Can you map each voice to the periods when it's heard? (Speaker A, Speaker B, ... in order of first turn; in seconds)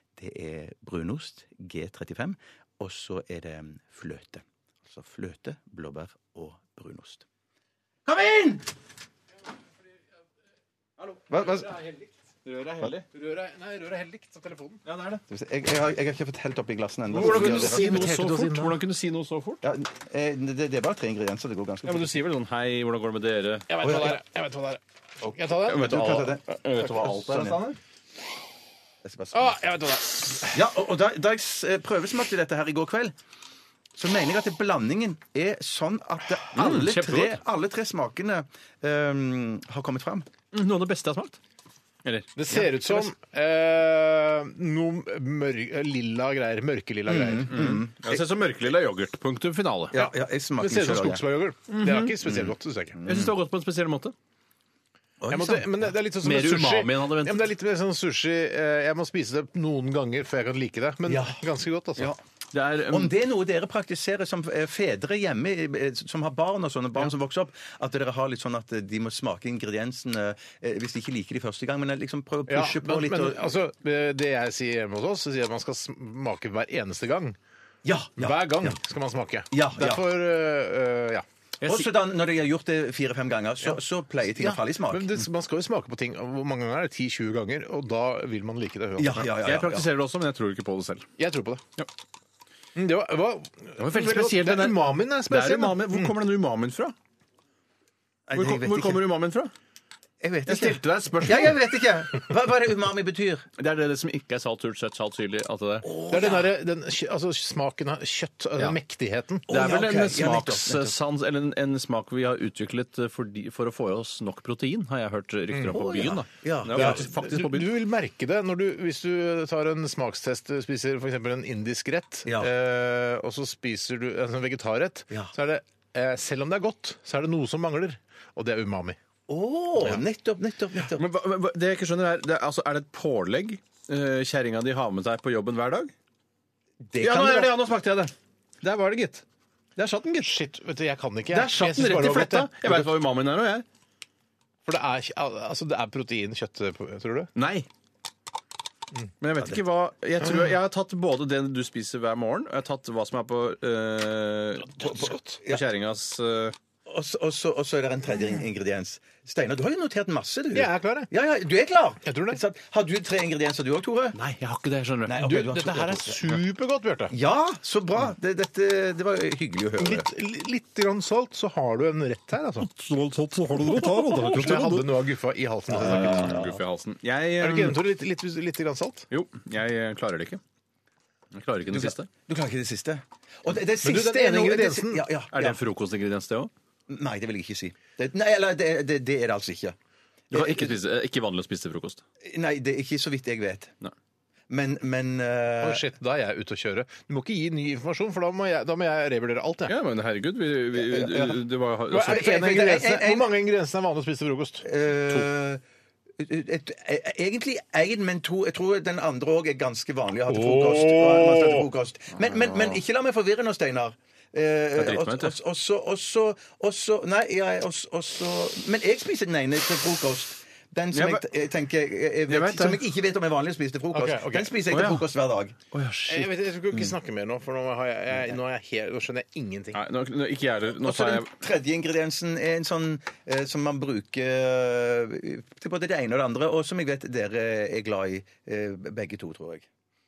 Speaker A: 0.2-7.2, 8.1-8.6, 11.3-11.8, 15.3-18.1, 19.6-22.2, 23.8-24.2, 25.2-27.6, 29.0-29.6, 30.5-33.1, 34.0-40.3, 47.1-48.2, 49.9-51.2, 52.2-53.3, 55.2-55.7, 61.1-61.4, 62.9-73.6, 77.8-78.8, 79.5-80.0, 81.7-85.2, 89.0-89.9, 98.3-99.0, 100.2-103.5, 105.8-106.5, 109.5-110.9, 115.7-117.1, 122.2-122.5, 129.3-131.0, 136.9-137.5, 154.8-155.6, 156.9-164.2, 165.1-166.2, 167.1-170.1, 175.7-176.6, 181.7-185.6, 186.9-189.8, 190.3-190.8, 192.2-193.7, 194.5-195.9, 200.9-201.3, 202.1-203.3, 204.6-205.6, 206.2-225.6, 230.8-239.7
Speaker B: 11.6-12.1, 13.1-14.8, 17.1-18.8, 23.7-26.1, 29.3-30.6, 42.4-47.7, 49.9-53.0, 55.3-62.1, 72.5-77.4, 78.2-81.2, 84.3-89.3, 91.2-91.6, 92.7-96.1, 106.1-109.5, 115.5-115.8, 116.7-129.0, 140.2-142.9, 144.6-147.3, 160.5-161.1, 162.0-162.4, 165.2-167.1, 169.8-172.7, 173.5-176.4, 177.4-179.1, 183.8-185.1, 195.6-199.7, 201.9-204.7, 210.3-211.7, 223.9-224.6, 226.1-229.8
Speaker C: 12.4-13.0, 14.8-15.2, 17.1-19.6, 21.8-23.8, 25.6-27.8, 36.5-37.4, 40.5-41.4, 42.0-42.3, 47.5-49.9, 51.8-52.1, 53.0-54.1, 56.2-57.4, 62.5-63.1, 81.6-81.9, 89.2-91.1, 93.8-96.9, 98.3-99.5, 100.5-101.5, 103.6-105.9, 109.5-117.7, 130.9-135.9, 137.0-139.2, 139.8-140.3, 141.3-143.6, 147.3-147.7, 149.2-156.5, 164.1-165.5, 172.6-174.9, 175.9-177.8, 179.1-180.4, 181.3-182.1, 185.3-186.5, 190.3-192.0, 199.7-202.4, 212.2-212.8, 214.8-215.3, 220.9-221.2, 222.3-222.8, 224.7-225.0, 225.7-226.3, 229.7-231.3